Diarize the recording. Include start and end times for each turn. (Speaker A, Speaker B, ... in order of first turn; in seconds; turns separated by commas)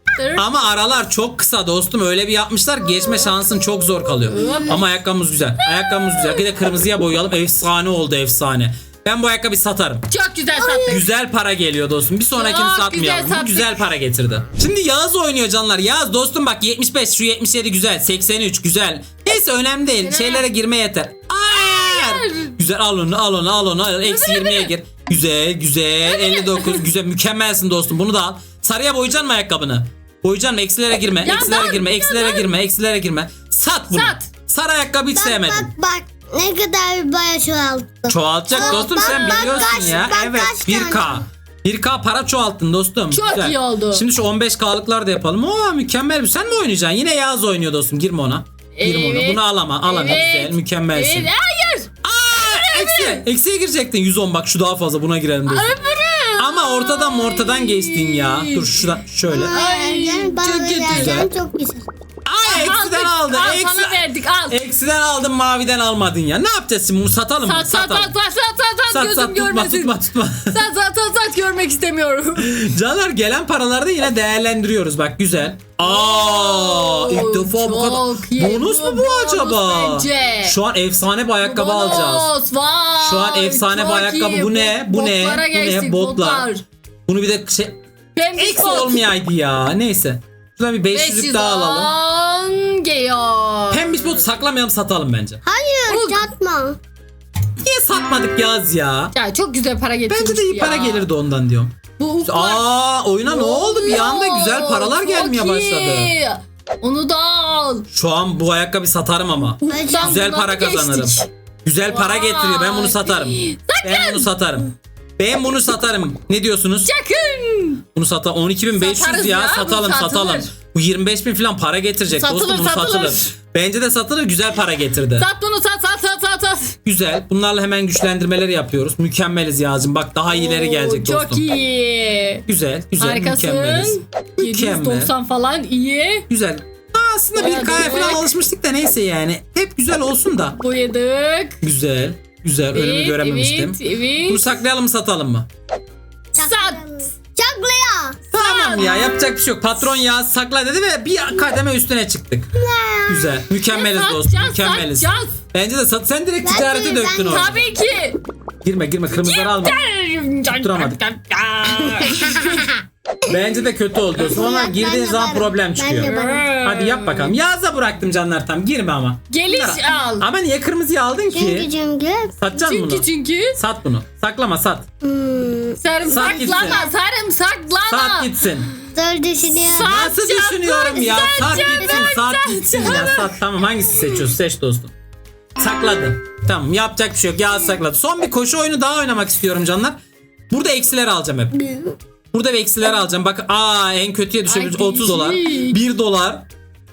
Speaker A: 0.2-0.4, Speaker B: 0.3-10.1, Speaker A: 4.3-4.9, Speaker A: 5.8-6.4, Speaker A: 10.1-11.1, Speaker B: 10.7-35.7, Speaker A: 12.3-13.8, Speaker A: 20.0-20.4, Speaker A: 21.5-22.5, Speaker A: 24.0-24.7, Speaker A: 26.1-26.8, Speaker A: 31.2-32.5, Speaker A: 33.9-34.3, Speaker C: 35.1-41.2, Speaker B: 38.1-51.3, Speaker A: 43.1-44.0, Speaker A: 48.8-53.2, Speaker B: 52.0-55.7, Speaker A: 55.5-61.3, Speaker B: 56.4-59.6, Speaker C: 59.3-61.9, Speaker B: 60.8-61.3, Speaker B: 62.2-68.1, Speaker A: 62.4-64.6, Speaker A: 67.4-69.9, Speaker B: 68.9-70.6, Speaker A: 70.5-72.5, Speaker B: 72.3-82.3, Speaker A: 75.8-80.6, Speaker A: 81.4-86.6, Speaker B: 83.0-86.5, Speaker B: 87.1-87.8, Speaker A: 88.1-89.0, Speaker B: 88.4-91.9, Speaker A: 90.9-94.1, Speaker B: 93.7-95.4, Speaker C: 95.4-96.8, Speaker A: 95.9-96.2, Speaker B: 97.6-99.1, Speaker A: 99.1-101.1, Speaker B: 100.1-101.7, Speaker A: 102.0-102.6, Speaker B: 102.2-106.1, Speaker A: 103.2-107.9, Speaker B: 107.9-116.9, Speaker A: 109.6-111.3, Speaker C: 109.6-110.3, Speaker A: 111.8-114.3, Speaker A: 116.8-117.8, Speaker B: 117.9-125.2, Speaker A: 118.7-120.5, Speaker A: 122.1-123.3, Speaker A: 125.2-126.8, Speaker B: 126.8-131.4, Speaker A: 130.3-132.4, Speaker B: 132.5-135.1, Speaker A: 133.0-136.2, Speaker B: 136.3-140.6, Speaker A: 137.3-138.3, Speaker A: 140.6-141.6, Speaker B: 141.6-145.5, Speaker A: 142.7-144.6, Speaker C: 146.3-148.2, Speaker A: 146.3-146.8, Speaker B: 148.3-152.5, Speaker A: 148.3-149.1, Speaker C: 152.5-153.4, Speaker B: 153.1-157.6, Speaker A: 153.7-155.3, Speaker C: 156.4-157.7, Speaker A: 157.2-158.2, Speaker B: 158.6-159.8, Speaker A: 159.2-161.0, Speaker B: 160.5-162.7, Speaker A: 161.9-162.4, Speaker C: 162.0-162.6, Speaker B: 163.3-171.7, Speaker C: 164.2-166.6, Speaker A: 165.9-167.3, Speaker A: 169.3-170.2, Speaker C: 171.3-172.4, Speaker B: 172.4-174.9, Speaker A: 172.5-173.6, Speaker C: 175.0-176.9, Speaker A: 175.8-178.3, Speaker B: 176.1-176.8, Speaker B: 177.9-178.7, Speaker C: 178.8-179.9, Speaker A: 179.6-183.3, Speaker B: 179.7-184.9, Speaker B: 185.6-190.0, Speaker B: 190.5-191.6, Speaker C: 191.6-191.9, Speaker B: 192.3-196.4, Speaker A: 194.4-195.8